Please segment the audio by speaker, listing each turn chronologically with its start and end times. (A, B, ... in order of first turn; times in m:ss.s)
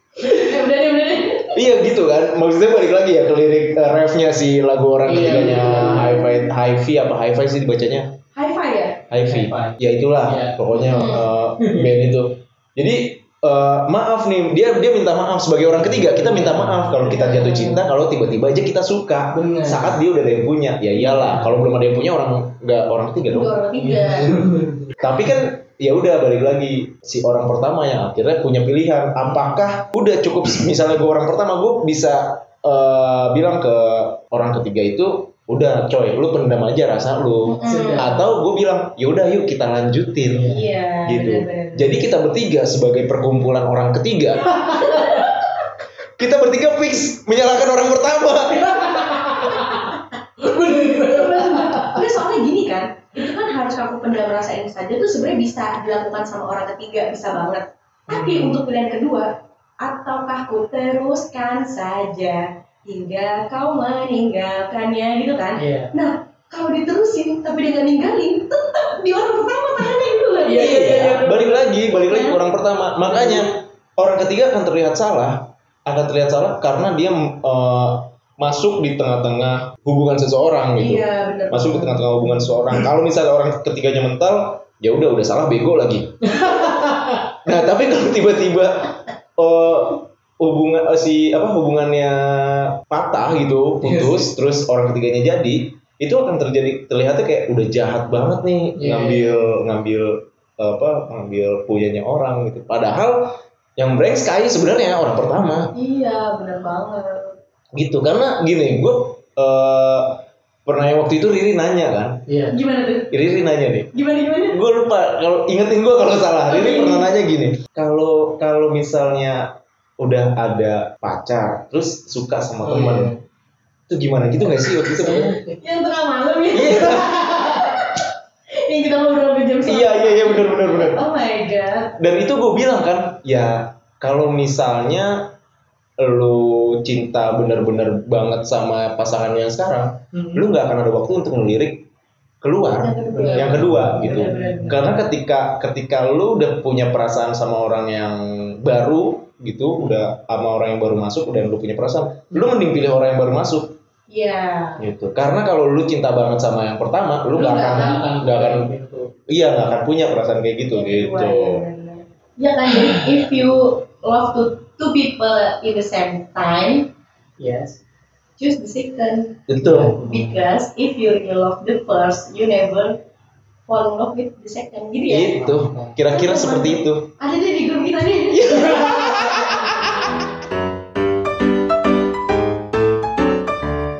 0:00.2-0:01.5 A
0:01.5-0:08.1 B
0:05.0-0:06.4 C
0:08.3-0:09.0 A
0:09.1-0:23.5 B
0:09.2-0:11.9 C
0:10.9-0:11.3 A
0:15.7-0:17.0 C
0:17.0-0:17.9 A
0:19.3-0:20.0 C
0:21.0-0:21.5 A
0:23.3-0:24.3 A
0:23.8-0:25.0 C
0:25.0-0:40.5 B
0:29.2-0:29.6 C
0:37.4-0:38.1 A
0:37.7-0:38.2 C
0:40.3-0:40.7 C
0:40.5-0:42.0 A
0:41.0-0:44.7 B
0:44.4-0:45.3 C
0:44.8-0:45.4 A
0:46.2-0:49.1 B
0:48.6-0:52.0 C
0:50.7-0:59.3 A
0:58.1-0:58.6 C
0:59.8-1:12.4 A
1:05.6-1:05.9 C
1:09.8-1:11.5 C
1:10.6-1:26.3 B
1:13.1-1:13.5 C
1:20.8-1:22.0 A
1:26.2-1:27.3 C
1:27.4-1:45.7 B
1:33.8-1:34.2 C
1:38.8-1:39.4 C
1:45.7-1:47.3 A
1:47.7-1:52.2 B
1:52.3-1:52.6 C
1:52.5-1:53.1 A
1:53.1-1:53.9 B
1:53.9-1:54.6 A
1:54.5-2:03.1 B
1:56.5-1:57.1 A
2:02.6-2:03.2 C
2:03.9-2:05.4 B
2:04.9-2:05.6 C
2:05.6-2:11.9 A
2:06.5-2:07.2 B
2:09.6-2:11.0 B
2:12.0-2:15.3 B
2:16.0-2:21.8 B
2:20.1-2:20.4 C
2:22.4-2:33.8 B
2:22.8-2:24.8 A
2:23.1-2:25.0 C
2:34.1-2:34.8 A
2:34.8-2:38.7 B
2:37.3-2:38.0 A
2:37.6-2:39.1 C
2:39.3-2:41.6 B
2:40.7-2:46.9 A
2:47.4-2:47.8 C
2:48.4-2:49.4 A
2:49.5-2:50.0 B
2:49.6-2:50.5 C
2:50.0-2:53.0 A
2:53.7-2:55.4 A
2:55.1-2:57.1 B
2:55.3-2:56.0 C
2:56.1-2:59.5 A
2:58.3-3:00.2 B